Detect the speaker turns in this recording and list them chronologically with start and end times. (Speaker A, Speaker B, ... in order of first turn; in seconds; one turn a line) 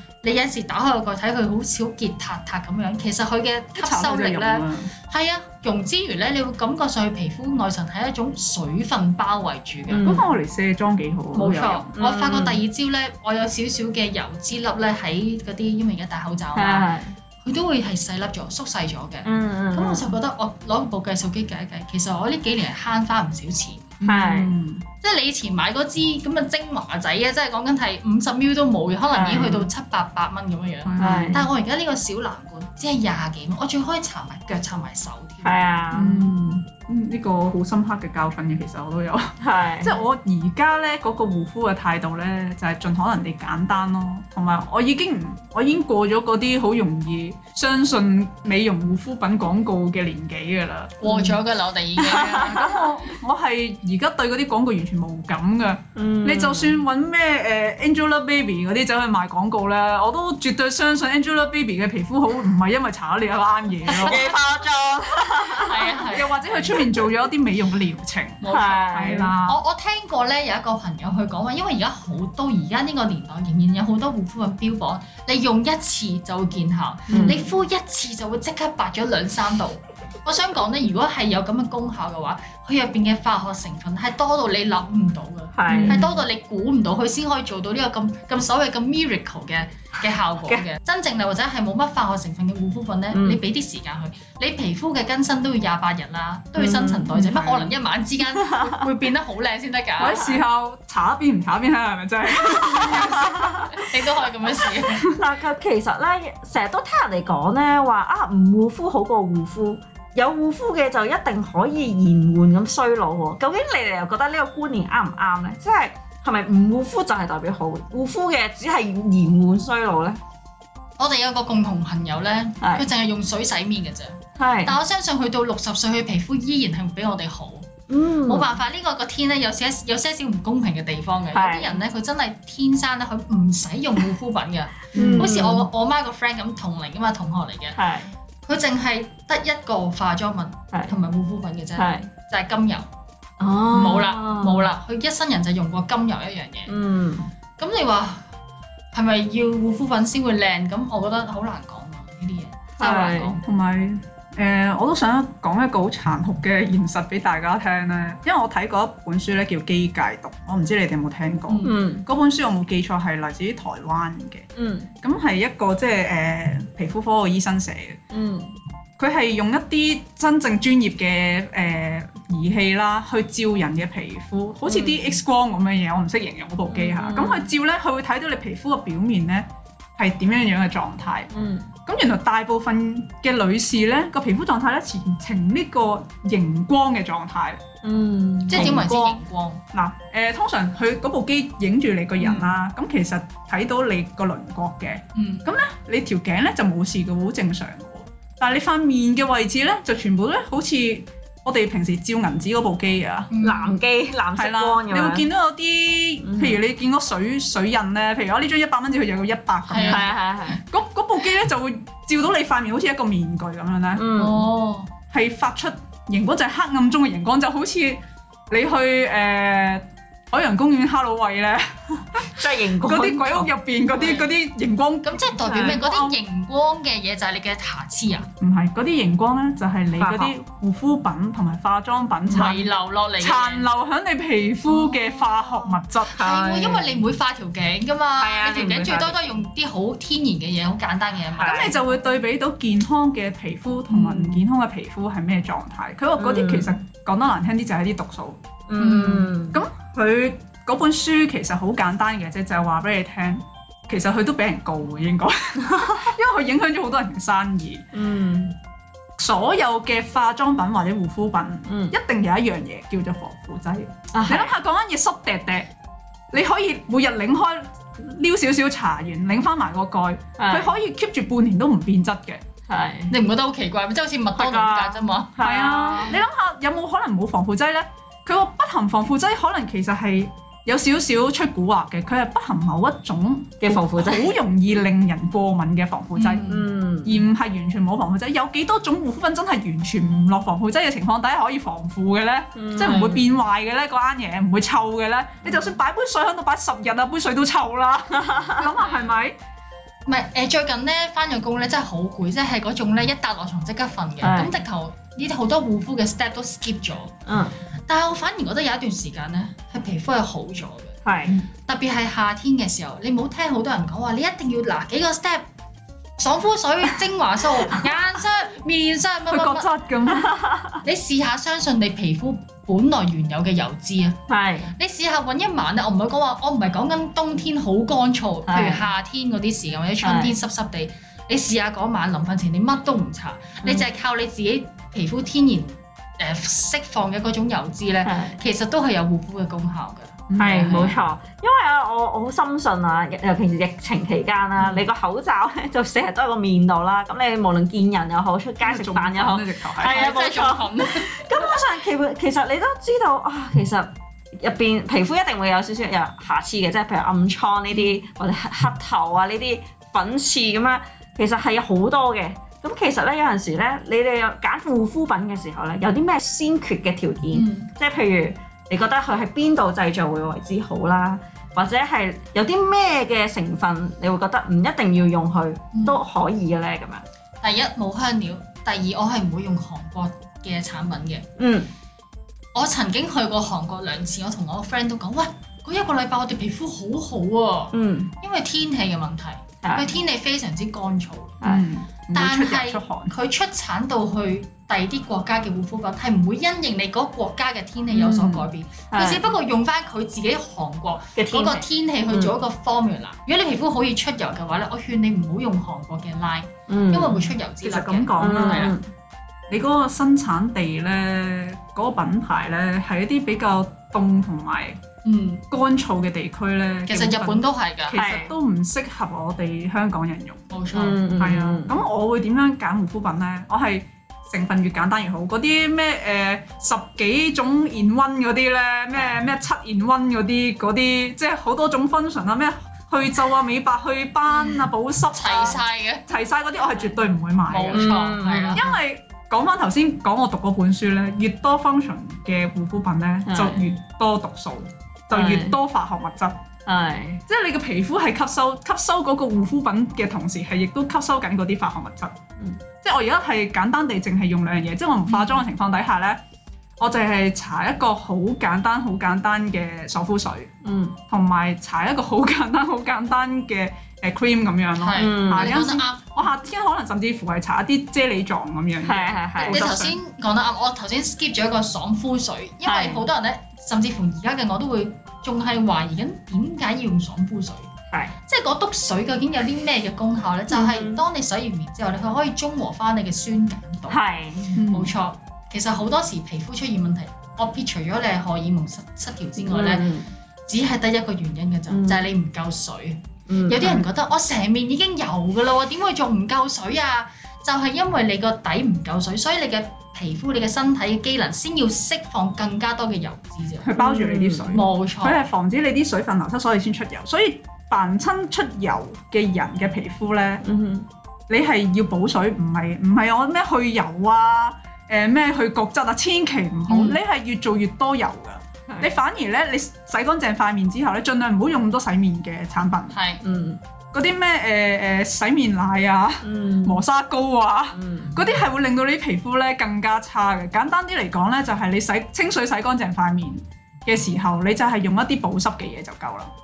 Speaker A: 0.2-10.1
Speaker B: 3.8-4.9
Speaker C: 9.9-10.2
Speaker B: 10.0-11.9
Speaker A: 11.3-16.9
Speaker C: 11.9-12.6
Speaker C: 16.5-17.1
Speaker A: 17.4-23.9
Speaker C: 19.2-20.1
Speaker B: 24.0-24.8
Speaker C: 24.0-24.5
Speaker A: 25.0-35.7
Speaker C: 29.1-29.7
Speaker B: 30.8-31.4
Speaker C: 31.0-31.5
Speaker C: 35.4-36.3
Speaker B: 35.9-51.3
Speaker C: 39.4-40.0
Speaker A: 51.0-52.8
Speaker B: 52.0-64.3
Speaker C: 52.1-52.6
Speaker C: 56.0-56.8
Speaker C: 63.9-66.0
Speaker A: 63.9-64.3
Speaker A: 65.6-66.7
Speaker B: 66.1-69.6
Speaker A: 68.4-100.3
Speaker C: 68.5-69.3
Speaker B: 77.1-77.4
Speaker C: 77.1-77.4
Speaker C: 85.5-86.0
Speaker B: 85.7-86.1
Speaker C: 93.1-93.4
Speaker C: 96.6-97.1
Speaker B: 97.1-97.7
Speaker C: 98.3-98.8
Speaker B: 100.0-103.8
Speaker C: 102.5-103.7
Speaker A: 102.6-105.1
Speaker C: 105.0-120.2
Speaker A: 121.0-127.7
Speaker C: 122.6-122.9
Speaker C: 124.4-124.8
Speaker C: 127.9-128.6
Speaker A: 128.2-137.8
Speaker C: 131.3-131.8
Speaker C: 134.9-135.7
Speaker B: 134.9-135.3
Speaker C: 137.8-138.1
Speaker A: 138.4-142.9
Speaker C: 141.8-142.1
Speaker C: 143.4-144.7
Speaker A: 143.7-146.7
Speaker C: 146.7-147.3
Speaker A: 147.6-148.3
Speaker A: 148.9-153.4
Speaker C: 152.8-153.4
Speaker B: 153.4-164.5
Speaker A: 161.5-161.8
Speaker C: 161.6-162.0
Speaker C: 164.6-164.9
Speaker B: 165.0-168.0
Speaker C: 168.1-168.6
Speaker B: 169.0-181.3
Speaker C: 174.7-175.1
Speaker C: 176.7-177.5
Speaker C: 181.3-181.7
Speaker B: 181.8-187.6
Speaker C: 187.8-188.8
Speaker A: 188.5-189.6
Speaker B: 188.5-189.2
Speaker B: 189.7-203.3
Speaker A: 195.1-195.4
Speaker A: 203.3-203.8
Speaker C: 203.4-205.2
Speaker B: 204.3-214.1
Speaker C: 206.2-206.6
Speaker A: 209.7-210.6
Speaker C: 209.8-210.6
Speaker C: 213.9-214.5
Speaker A: 214.1-214.9
Speaker B: 215.1-226.2
Speaker C: 222.3-223.5
Speaker A: 223.9-224.3
Speaker A: 225.0-228.3
Speaker C: 225.5-225.8
Speaker B: 228.4-236.4
Speaker C: 229.9-230.3
Speaker A: 232.3-233.7
Speaker A: 234.7-241.8
Speaker C: 236.2-236.9
Speaker C: 238.2-239.2
Speaker C: 241.4-241.8
Speaker B: 241.4-248.4
Speaker C: 246.2-246.8
Speaker C: 248.7-249.6
Speaker A: 248.8-249.3
Speaker B: 249.5-257.9
Speaker C: 255.7-256.0
Speaker C: 257.9-258.5
Speaker B: 259.2-265.7
Speaker C: 261.7-261.9
Speaker C: 264.1-264.5
Speaker B: 266.3-272.4
Speaker C: 270.4-270.7
Speaker C: 272.7-273.1
Speaker A: 273.1-275.4
Speaker C: 274.4-276.2
Speaker B: 275.4-286.5
Speaker C: 283.6-284.3
Speaker A: 286.1-286.6
Speaker C: 286.4-287.2
Speaker B: 287.0-299.4
Speaker C: 292.6-293.2
Speaker A: 292.8-293.2
Speaker C: 298.1-298.6
Speaker A: 298.6-299.1
Speaker A: 300.1-307.1
Speaker C: 304.2-304.6
Speaker C: 307.2-307.5
Speaker A: 307.9-311.0
Speaker C: 311.0-311.4
Speaker A: 311.6-315.4
Speaker A: 316.2-319.7
Speaker B: 319.3-320.4
Speaker C: 320.1-320.8
Speaker A: 320.8-324.2
Speaker C: 324.3-324.7
Speaker A: 324.7-341.0
Speaker C: 328.5-328.9
Speaker C: 330.0-330.4
Speaker C: 338.0-338.4
Speaker B: 340.3-340.9
Speaker C: 340.4-377.0
Speaker B: 348.6-350.1
Speaker A: 349.8-351.6
Speaker A: 367.3-367.7
Speaker A: 375.7-376.0
Speaker A: 377.4-381.3
Speaker C: 381.4-381.7
Speaker A: 382.5-391.4
Speaker C: 387.7-388.1
Speaker C: 389.6-389.9
Speaker B: 391.4-393.1
Speaker A: 392.1-408.8
Speaker B: 397.9-398.4
Speaker C: 398.9-399.3
Speaker C: 401.1-402.3
Speaker C: 406.7-407.3
Speaker B: 407.6-408.8
Speaker C: 408.2-408.8
Speaker B: 409.5-414.8
Speaker A: 415.0-415.4
Speaker B: 415.5-420.5
Speaker A: 416.9-418.0
Speaker C: 417.9-418.3
Speaker A: 420.5-421.0
Speaker C: 420.7-421.8
Speaker B: 421.2-437.9
Speaker A: 435.1-436.1
Speaker A: 437.5-438.6
Speaker C: 437.7-438.7
Speaker B: 438.5-446.4
Speaker C: 443.3-443.7
Speaker C: 445.1-445.6
Speaker C: 446.6-447.2
Speaker B: 447.3-452.2
Speaker B: 452.8-456.2
Speaker A: 455.1-455.4
Speaker B: 456.8-460.5
Speaker C: 460.6-461.0
Speaker B: 461.1-469.9
Speaker A: 464.8-466.1
Speaker C: 464.9-465.6
Speaker C: 468.8-469.7
Speaker A: 469.4-477.7
Speaker C: 472.6-473.0
Speaker A: 478.2-484.0
Speaker C: 480.5-481.0
Speaker C: 483.9-484.6
Speaker B: 484.5-484.9
Speaker A: 484.7-489.9
Speaker C: 489.4-490.1
Speaker A: 490.5-503.7
Speaker C: 491.7-492.1
Speaker C: 493.3-493.9
Speaker B: 503.6-510.4
Speaker C: 503.8-504.6
Speaker A: 504.5-505.2
Speaker C: 510.4-510.9
Speaker B: 511.3-523.0
Speaker C: 516.7-517.0
Speaker A: 522.9-523.2
Speaker C: 523.2-523.6
Speaker B: 523.9-536.3
Speaker C: 526.2-526.8
Speaker C: 527.7-528.2